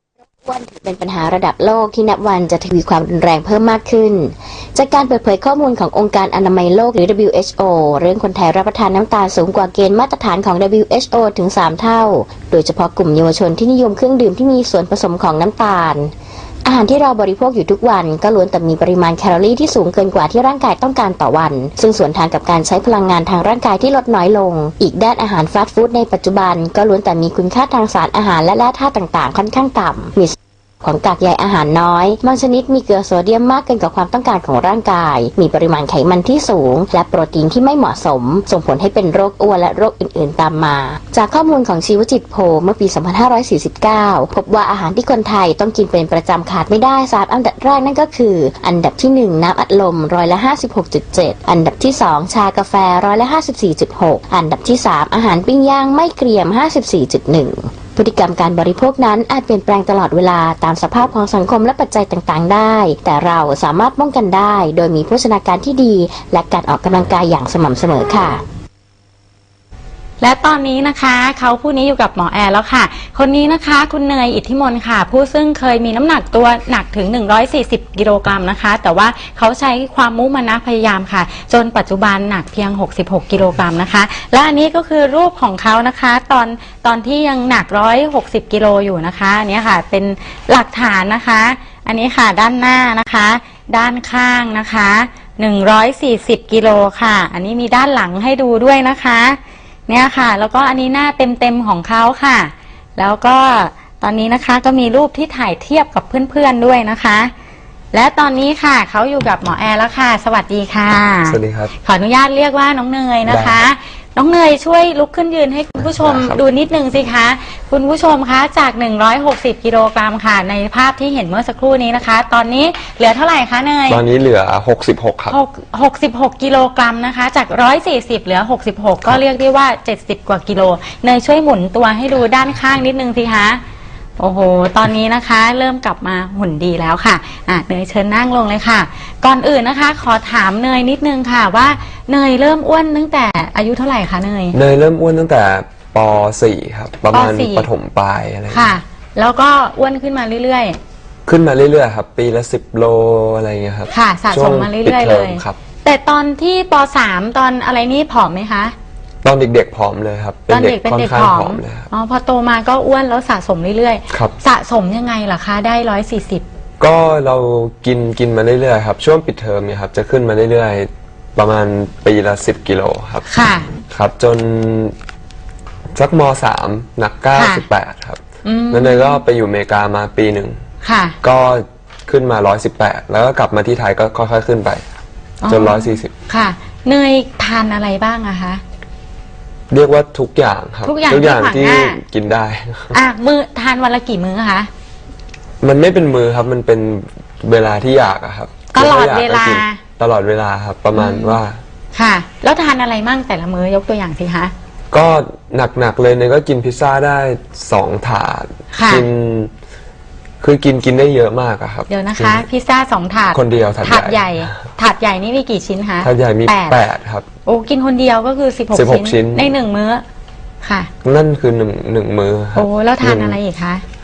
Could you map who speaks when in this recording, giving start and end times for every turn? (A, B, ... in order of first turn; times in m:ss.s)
0:00.4-0:16.1 A
0:16.6-1:08.4 A
1:10.2-1:47.3 B
1:47.9-2:04.0 B
1:51.3-1:51.7 C
1:53.2-1:53.6 C
1:55.8-1:56.4 C
2:03.9-2:05.4 C
2:05.3-2:13.6 B
2:14.2-2:24.6 B
2:24.5-2:28.7 C
2:27.1-2:27.7 B
2:28.5-2:30.8 B
2:31.2-2:35.6 C
2:33.9-2:38.7 B
2:39.2-2:41.9 C
2:40.5-2:46.4 B
2:44.1-2:44.3 C
2:46.8-2:53.3 C
2:53.3-2:53.7 B
2:53.9-2:54.9 C
2:55.9-3:00.6 C
2:57.3-2:57.6 B
2:58.4-2:59.2 B
3:00.8-3:01.2 B
3:01.2-3:04.9 C
3:05.4-3:08.6 B
3:05.5-3:06.1 C
3:09.7-3:13.0 C
3:10.8-3:12.0 B
3:12.9-3:14.7 B
3:15.6-3:21.6 C
3:18.7-3:19.8 B
3:20.9-3:21.4 B
3:21.9-3:24.5 B
3:24.9-3:29.5 C
3:28.7-3:29.0 B
3:30.4-3:32.4 C
3:31.9-3:36.8 B
3:33.3-3:34.5 C
3:36.0-3:37.3 C
3:37.4-3:40.0 B
3:38.7-3:39.5 C
3:40.6-3:40.9 B
3:41.0-3:43.4 C
3:42.5-3:43.8 B